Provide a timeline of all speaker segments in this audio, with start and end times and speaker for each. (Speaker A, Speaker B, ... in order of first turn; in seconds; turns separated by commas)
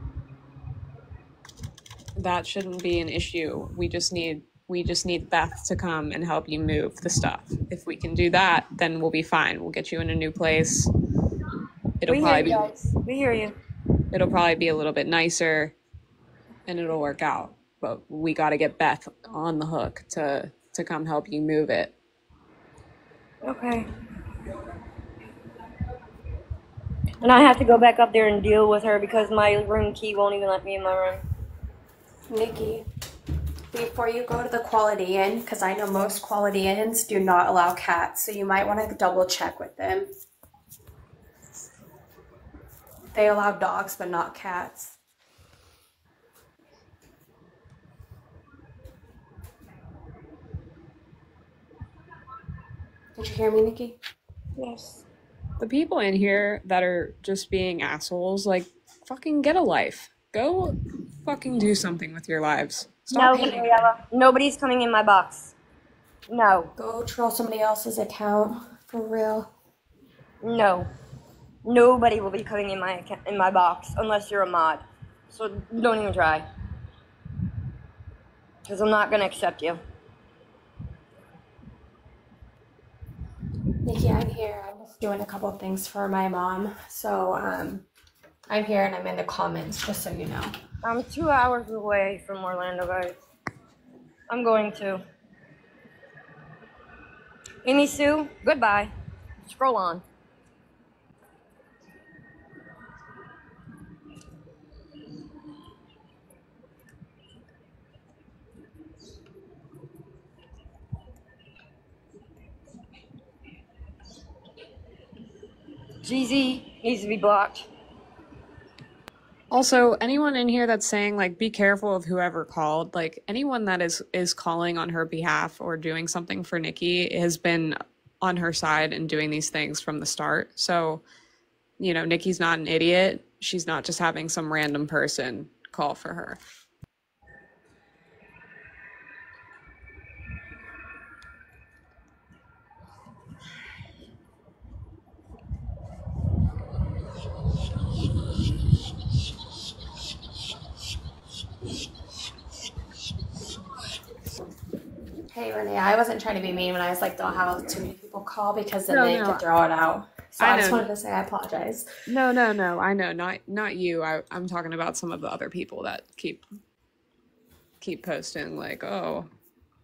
Speaker A: 2.2-10.9, Speaker A: 12.0-12.7, Speaker B: 12.1-13.6, Speaker A: 14.1-15.8, Speaker A: 16.7-21.9, Speaker B: 23.4-23.9, Speaker B: 27.2-31.2, Speaker C: 32.3-32.9, Speaker C: 33.7-40.1, Speaker C: 43.1-45.0, Speaker C: 53.2-54.0, Speaker B: 54.6-55.0, Speaker A: 55.6-63.7, Speaker B: 63.1-65.5, Speaker B: 66.3-66.7, Speaker C: 66.8-69.5, Speaker B: 70.4-70.9, Speaker B: 71.7-76.5, Speaker B: 78.7-79.8, Speaker C: 83.8-87.9, Speaker C: 88.5-90.5, Speaker B: 90.8-93.2, Speaker B: 94.3-95.0, Speaker B: 97.6-100.0, Speaker B: 116.0-117.7, Speaker A: 119.5-131.0, Speaker A: 131.8-136.4, Speaker C: 155.3-161.9, Speaker A: 158.9-159.4, Speaker A: 160.4-160.9, Speaker A: 162.1-166.4, Speaker A: 167.8-169.3